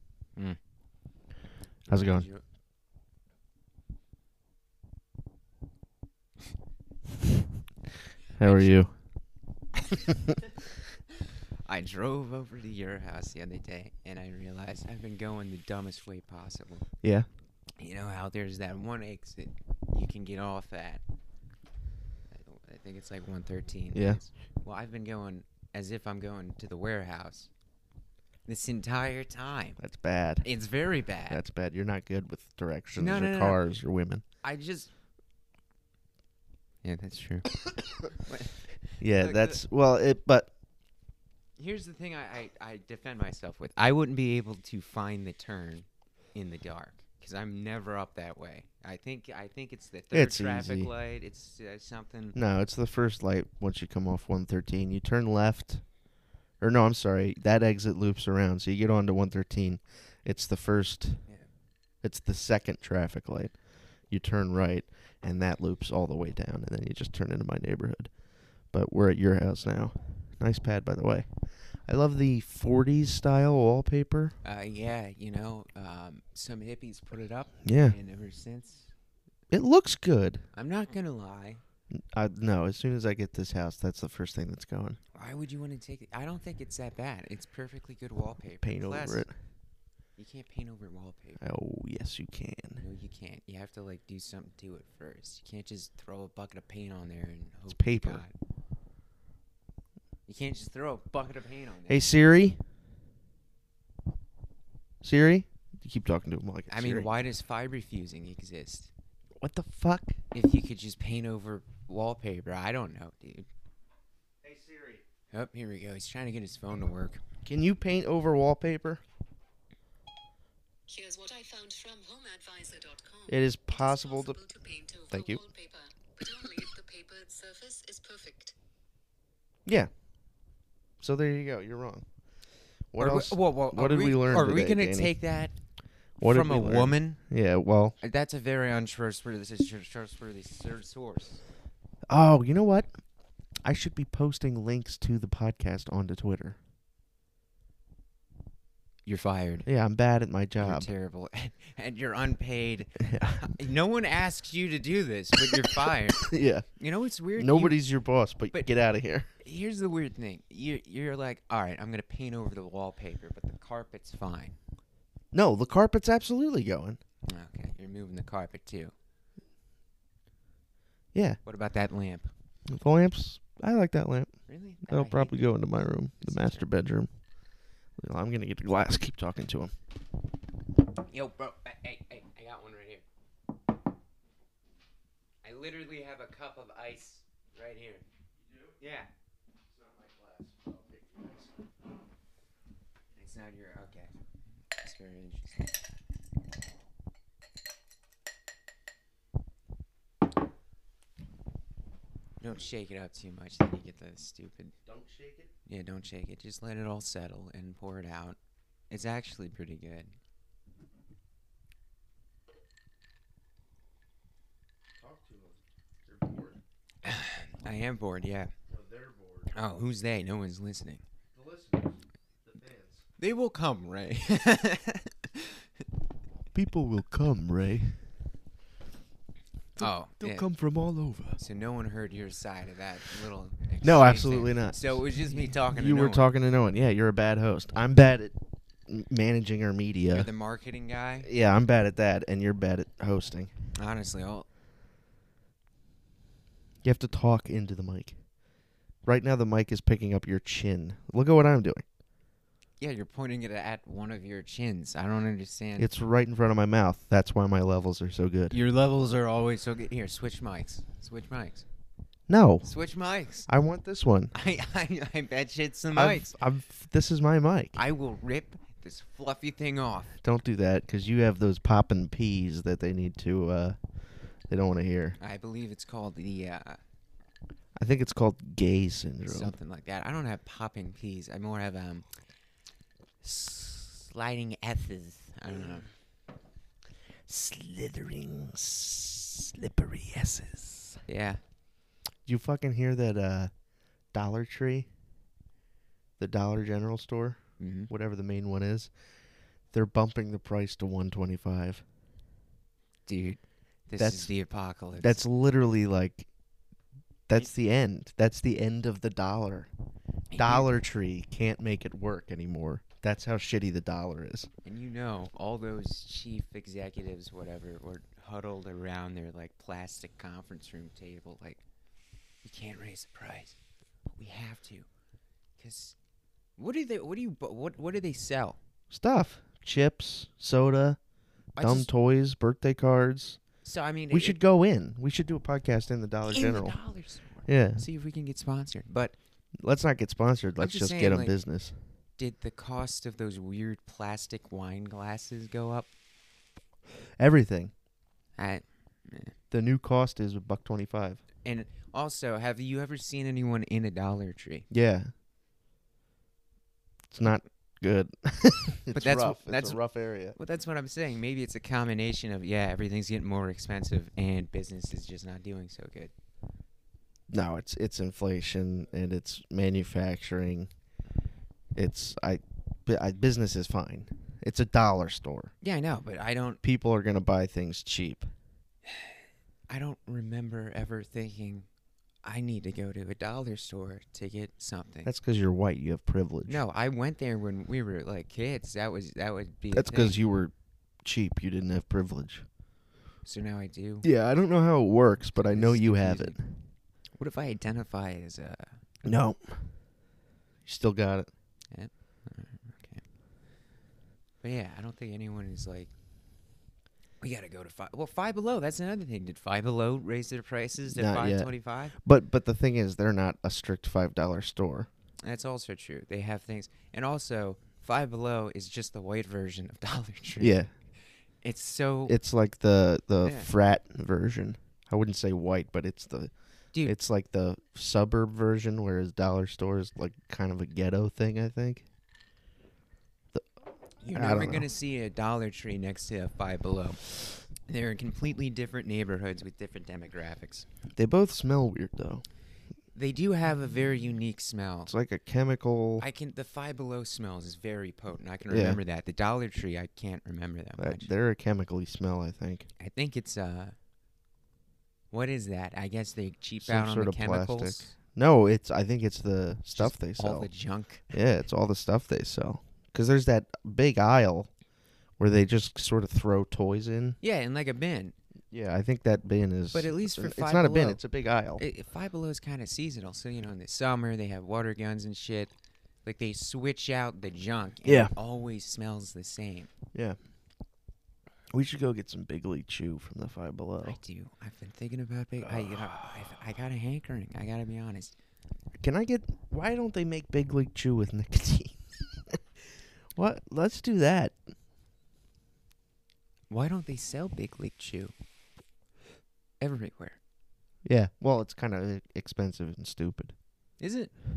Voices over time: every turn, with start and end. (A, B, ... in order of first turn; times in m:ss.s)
0:01.9-0:02.4 A
0:01.9-0:02.3 B
0:08.4-0:08.9 B
0:08.4-0:08.8 A
0:11.6-0:16.8 A
0:17.0-0:17.3 B
0:17.8-0:21.0 A
0:22.3-0:27.5 A
0:23.9-0:24.2 B
0:28.5-0:29.8 A
0:29.8-0:30.5 B
0:30.4-0:31.4 A
0:31.3-0:34.2 B
0:32.9-0:33.6 A
0:34.4-0:34.9 A
0:36.8-0:37.6 A
0:38.1-0:39.6 A
0:39.0-0:40.5 B
0:41.6-0:52.4 A
0:50.1-0:50.9 B
0:52.3-0:55.8 B
0:56.6-1:01.2 B
1:02.0-1:03.5 B
1:04.1-1:08.1 B
1:08.7-1:11.3 B
1:11.8-1:14.4 B
1:14.4-1:18.9 A
1:17.6-1:18.0 B
1:19.5-1:20.4 B
1:20.5-1:21.6 A
1:21.9-1:25.0 B
1:25.1-1:29.2 A
1:28.6-1:29.3 B
1:30.2-1:31.4 A
1:31.4-1:32.8 B
1:32.8-1:38.3 A
1:37.7-1:38.2 B
1:40.3-1:42.1 A
1:41.9-1:42.6 B
1:45.0-1:47.1 B
1:46.7-1:48.9 A
1:49.4-1:50.2 B
1:50.3-1:53.5 A
1:54.4-1:55.0 B
1:55.3-1:57.2 A
1:57.4-1:59.0 B
2:00.9-2:08.5 C
2:03.3-2:04.4 B
2:05.1-2:05.4 B
2:09.6-2:09.9 B
2:11.0-2:12.0 B
2:12.9-2:15.1 B
2:13.0-2:15.6 A
2:16.2-2:18.0 B
2:16.2-2:17.2 A
2:18.0-2:21.4 A
2:22.1-2:23.0 B
2:23.6-2:26.6 B
2:29.0-2:29.7 A
2:29.6-2:30.9 B
2:30.6-2:37.8 A
2:33.0-2:33.5 B
2:35.6-2:36.6 B
2:37.4-2:39.3 B
2:39.4-2:44.6 A
2:45.3-2:47.0 B
2:47.3-2:48.9 A
2:51.4-2:52.3 A
2:52.7-2:54.3 B
2:54.5-2:55.5 A
2:54.8-2:57.1 B
2:56.2-2:56.7 A
2:58.0-2:59.7 B
3:01.1-3:03.0 A
3:05.4-3:08.0 A
3:08.4-3:08.8 B
3:08.8-3:09.1 A
3:09.7-3:11.6 B
3:13.1-3:14.1 A
3:14.7-3:15.6 A
3:22.4-3:24.7 A
3:24.8-3:25.5 B
3:25.7-3:28.4 A
3:28.9-3:30.2 A
3:35.0-3:36.6 B
3:37.0-3:38.5 A
3:38.7-3:39.5 B
3:39.5-3:41.0 A
3:41.3-3:43.0 B
3:43.2-3:45.6 A
3:46.5-3:48.0 B
3:49.8-3:51.4 B
3:49.8-3:50.4 A
3:51.4-3:56.3 A
3:53.8-3:58.4 B
3:58.9-4:00.3 B
4:00.1-4:01.3 A
4:01.2-4:03.5 B
4:03.7-4:04.5 A
4:06.8-4:08.2 B
4:09.0-4:11.8 B
4:12.8-4:15.9 A
4:15.8-4:18.6 B
4:18.5-4:21.6 A
4:22.3-4:22.7 B
4:22.6-4:23.5 A
4:23.5-4:24.3 B
4:24.3-4:26.3 A
4:25.9-4:27.8 B
4:27.8-4:30.2 A
4:30.2-4:33.8 B
4:34.5-4:35.2 B
4:35.2-4:36.8 A
4:37.8-4:39.5 B
4:39.2-4:42.0 A
4:43.2-4:45.9 A
4:47.3-4:51.0 B
4:51.0-4:51.4 A
4:52.2-4:53.5 B
4:54.1-4:54.9 B
4:56.2-4:58.9 B
4:57.6-4:57.9 A
4:59.7-5:01.8 B
5:03.0-5:05.2 A
5:04.0-5:04.3 B
5:05.0-5:06.3 B
5:07.3-5:09.7 B
5:10.3-5:10.7 A
5:10.4-5:14.5 B
5:14.6-5:21.6 A
5:22.4-5:23.6 A
5:24.1-5:24.9 A
5:25.6-5:26.0 A
5:26.6-5:28.6 A
5:28.9-5:31.0 B
5:31.6-5:31.9 A
5:31.6-5:33.4 B
5:33.6-5:34.4 A
5:34.1-5:36.8 B
5:36.3-5:39.1 A
5:37.4-5:37.8 B
5:39.6-5:41.8 B
5:40.6-5:41.4 A
5:42.2-5:45.9 A
5:47.2-5:47.7 B
5:48.4-5:49.3 A
5:49.5-5:51.2 B
5:51.4-5:54.6 A
5:54.7-5:55.1 B
5:57.1-6:00.4 B
5:58.9-5:59.8 A
6:00.3-6:06.1 A
6:07.3-6:10.7 B
6:11.7-6:15.5 B
6:15.6-6:16.6 A
6:16.6-6:18.3 B
6:18.9-6:19.2 A
6:19.7-6:21.6 A
6:22.2-6:25.1 A
6:25.0-6:26.6 B
6:26.5-6:30.2 A
6:29.7-6:30.5 B
6:31.0-6:32.4 B
6:33.2-6:34.1 A
6:34.0-6:36.6 B
6:35.4-6:36.4 A
6:37.2-6:38.8 A
6:39.0-6:39.7 B
6:40.6-6:41.3 B
6:41.7-6:43.0 A
6:44.4-6:45.9 A
6:47.2-6:52.0 A
6:50.9-6:54.9 B
6:55.2-7:00.6 A
7:00.4-7:00.7 B
7:01.4-7:02.2 A
7:02.1-7:06.3 B
7:03.2-7:03.5 A
7:06.8-7:11.8 B
7:14.0-7:17.0 A
7:14.1-7:14.7 B
7:17.6-7:20.6 A
7:21.0-7:22.2 B
7:22.9-7:24.9 A
7:24.9-7:26.1 B
7:26.0-7:31.1 A
7:28.5-7:28.8 B
7:30.8-7:32.7 B
7:32.8-7:33.7 A
7:35.1-7:37.9 A
7:36.6-7:40.5 B
7:39.7-7:41.1 A
7:41.1-7:44.5 B
7:45.2-7:47.2 B
7:47.2-7:48.1 A
7:48.5-7:51.6 B
7:49.7-7:51.0 A
7:51.6-7:55.5 A
7:56.0-7:59.7 A
7:57.8-7:58.1 B
8:01.5-8:04.0 B
8:03.8-8:08.1 A
8:05.4-8:06.2 B
8:08.8-8:12.4 B
8:13.1-8:14.4 B
8:16.5-8:18.1 A
8:19.6-8:20.2 A
8:20.8-8:23.4 B
8:23.8-8:24.2 A